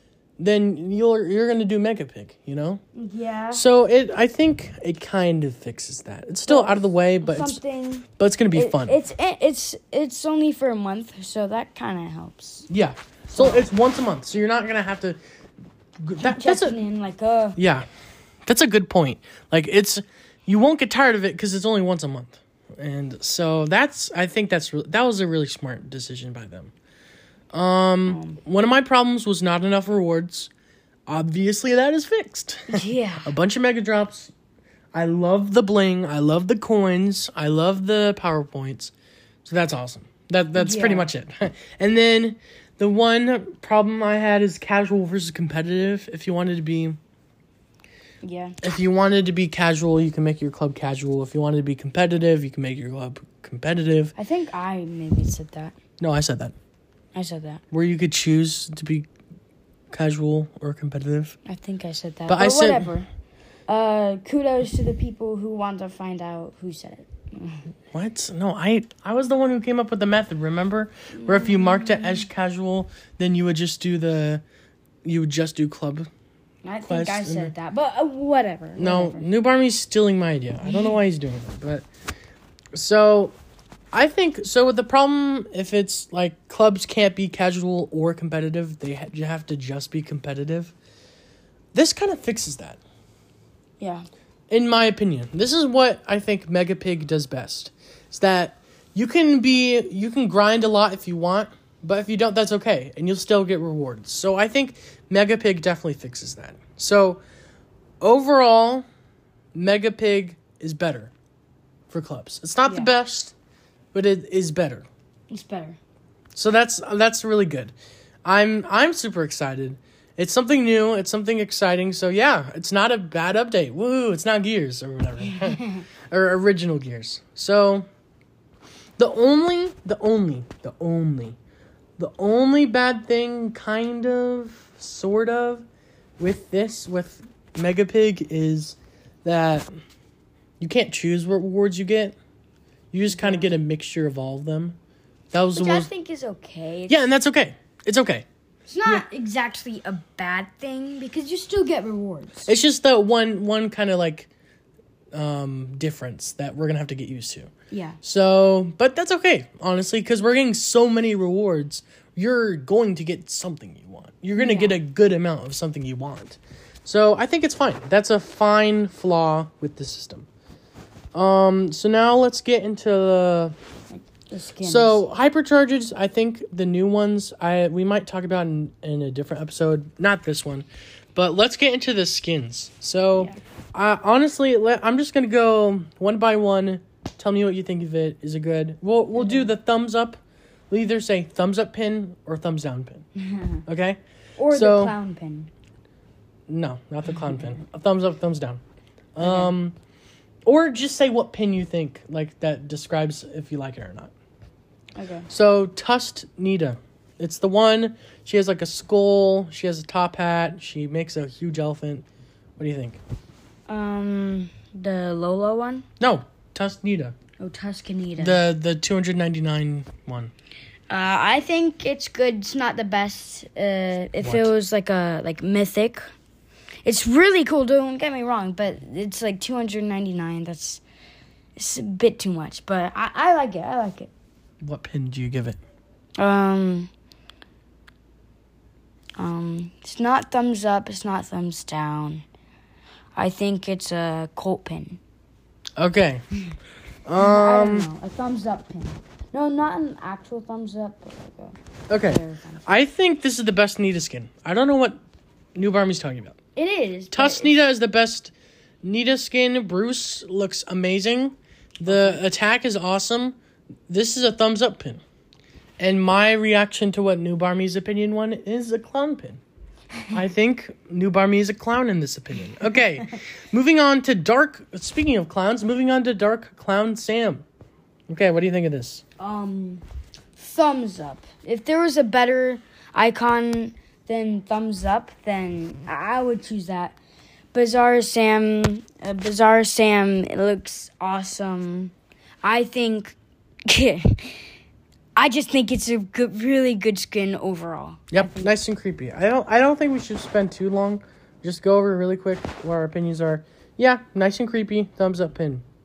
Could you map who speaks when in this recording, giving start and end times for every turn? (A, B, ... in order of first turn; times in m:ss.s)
0:00.4-0:02.8 A
0:02.9-0:03.6 B
0:03.5-0:09.0 A
0:06.5-0:12.7 B
0:12.7-0:15.2 A
0:13.3-0:13.6 B
0:16.0-0:16.8 A
0:16.2-0:17.6 B
0:17.6-0:17.9 A
0:18.5-0:26.7 A
0:27.5-0:30.5 A
0:28.1-0:28.4 B
0:31.1-0:34.3 A
0:32.7-0:33.3 B
0:34.9-0:38.9 A
0:39.4-0:47.0 A
0:40.6-0:41.1 B
0:48.2-0:48.6 B
0:48.6-0:54.1 A
0:54.2-0:55.8 B
0:56.0-0:56.5 A
0:57.1-0:57.6 B
0:57.7-0:59.1 A
0:59.9-1:01.4 A
1:01.5-1:03.1 B
1:02.3-1:02.9 A
1:03.7-1:07.6 B
1:07.9-1:14.4 A
1:11.1-1:12.2 B
1:15.0-1:16.1 A
1:16.6-1:19.3 B
1:16.9-1:17.5 A
1:18.8-1:21.9 A
1:20.7-1:20.9 B
1:22.7-1:23.4 A
1:23.9-1:30.7 A
1:31.7-1:32.8 A
1:33.8-1:34.0 B
1:34.5-1:47.2 A
1:48.0-1:48.8 A
1:49.5-1:51.1 A
1:51.9-1:53.3 A
1:52.6-1:52.9 B
1:53.9-1:54.9 A
1:55.3-1:55.8 B
1:56.4-1:57.7 A
1:58.2-2:07.9 A
2:05.2-2:05.8 B
2:09.0-2:11.4 A
2:12.0-2:15.6 A
2:16.2-2:19.7 A
2:20.6-2:22.2 A
2:22.9-2:24.8 A
2:23.1-2:23.5 B
2:25.3-2:25.9 A
2:25.5-2:27.0 B
2:26.9-2:28.2 A
2:28.7-2:32.5 B
2:32.5-2:34.3 A
2:35.1-2:37.5 A
2:37.7-2:38.0 B
2:38.0-2:50.3 A
2:44.4-2:44.8 B
2:51.1-2:53.5 A
2:53.9-2:55.0 B
2:54.6-3:13.0 A
3:09.2-3:09.5 B
3:13.2-3:13.6 B
3:13.6-3:14.9 A
3:14.4-3:15.5 B
3:16.5-3:18.6 A
3:17.2-3:17.6 B
3:19.1-3:19.8 A
3:19.2-3:19.5 B
3:20.4-3:24.1 A
3:25.0-3:25.3 B
3:25.3-3:32.0 A
3:32.6-3:33.0 A
3:33.7-3:35.9 B
3:36.0-3:37.1 A
3:37.4-3:38.4 B
3:38.2-3:40.3 A
3:40.9-3:46.0 B
3:44.2-3:44.5 A
3:46.8-3:50.8 B
3:51.6-3:54.1 B
3:54.6-3:55.6 A
3:56.2-3:56.9 B
3:59.2-4:02.2 B
4:03.2-4:05.0 B
4:05.8-4:06.2 A
4:07.0-4:07.9 A
4:07.2-4:12.6 B
4:11.9-4:15.0 A
4:15.5-4:16.4 A
4:16.6-4:17.6 B
4:17.1-4:18.3 A
4:18.8-4:23.4 A
4:21.9-4:22.2 B
4:23.9-4:25.0 A
4:25.8-4:29.4 A
4:30.1-4:37.4 A
4:38.1-4:39.0 A
4:39.2-4:39.8 B
4:40.4-4:47.0 B
4:47.5-4:54.4 B
4:55.2-4:58.5 B
4:58.1-5:05.6 A